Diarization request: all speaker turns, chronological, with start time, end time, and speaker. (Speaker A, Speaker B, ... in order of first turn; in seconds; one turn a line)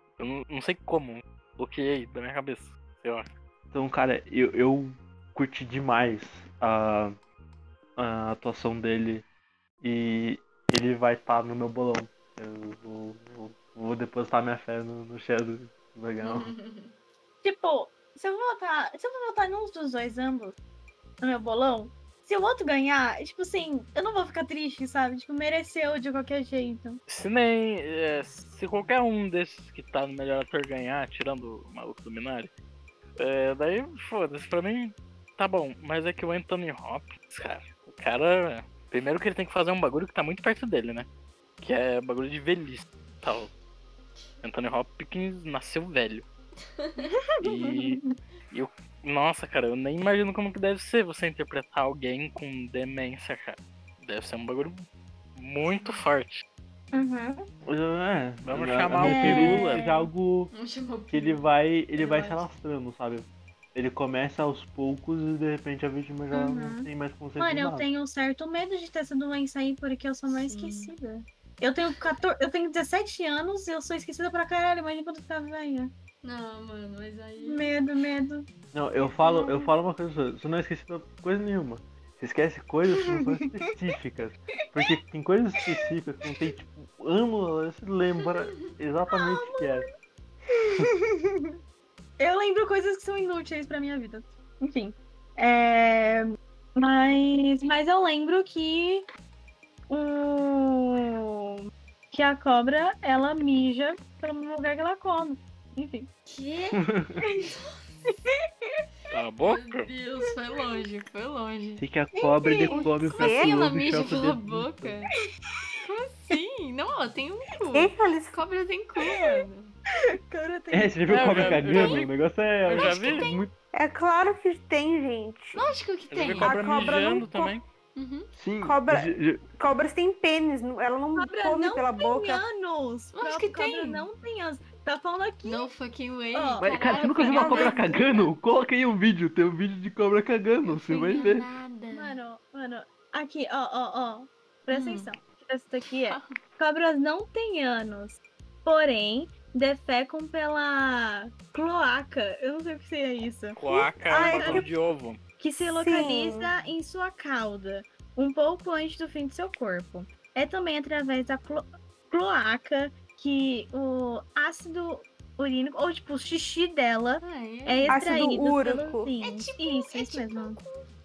Speaker A: 0.2-3.3
Speaker B: 3.7-7.1
Speaker B: 8.0-9.2
Speaker B: 9.8-16.5
Speaker C: 16.2-16.9
Speaker D: 17.4-20.5
Speaker D: 21.2-27.0
Speaker A: 27.1-32.5
Speaker A: 33.2-41.1
Speaker A: 41.6-43.5
Speaker A: 44.4-46.2
Speaker C: 46.8-47.1
Speaker D: 47.0-48.0
Speaker A: 47.4-54.8
Speaker A: 55.4-56.4
Speaker C: 55.7-56.0
Speaker D: 56.9-57.5
Speaker B: 57.7-60.5
Speaker A: 58.4-59.8
Speaker D: 59.0-60.0
Speaker C: 60.5-61.5
Speaker B: 61.1-67.8
Speaker C: 62.0-62.4
Speaker D: 66.3-66.9
Speaker D: 67.4-75.9
Speaker C: 70.3-70.9
Speaker C: 76.2-77.7
Speaker D: 77.4-78.5
Speaker B: 78.7-89.9
Speaker D: 79.0-79.7
Speaker D: 83.1-83.4
Speaker D: 89.1-89.9
Speaker D: 90.5-91.6
Speaker D: 92.2-99.0
Speaker D: 99.9-101.6
Speaker D: 102.1-106.1
Speaker C: 106.2-106.9
Speaker B: 106.8-107.2
Speaker C: 107.4-107.8
Speaker D: 108.1-108.8
Speaker A: 109.1-109.9
Speaker C: 109.4-111.8
Speaker B: 111.8-115.0
Speaker D: 112.2-112.9
Speaker C: 113.0-115.1
Speaker E: 113.0-113.5
Speaker C: 115.8-119.7
Speaker E: 117.7-118.4
Speaker D: 119.0-119.4
Speaker D: 120.2-121.5
Speaker B: 120.7-123.5
Speaker A: 121.1-122.1
Speaker C: 121.3-122.0
Speaker A: 122.7-123.2
Speaker C: 122.7-123.5
Speaker E: 123.7-125.7
Speaker C: 125.5-126.6
Speaker A: 126.1-127.6
Speaker E: 126.4-127.5
Speaker C: 127.9-128.3
Speaker B: 128.3-129.4
Speaker E: 128.6-132.4
Speaker D: 131.2-135.7
Speaker C: 133.1-134.1
Speaker C: 135.4-138.3
Speaker D: 136.3-138.1
Speaker B: 136.6-141.5
Speaker C: 140.6-142.2
Speaker D: 141.9-153.6
Speaker C: 144.7-145.1
Speaker A: 153.6-155.2
Speaker E: 154.0-154.7
Speaker D: 154.1-154.6
Speaker D: 155.4-170.6
Speaker E: 155.6-156.5
Speaker C: 167.2-168.1
Speaker E: 167.8-169.1
Speaker C: 169.2-170.9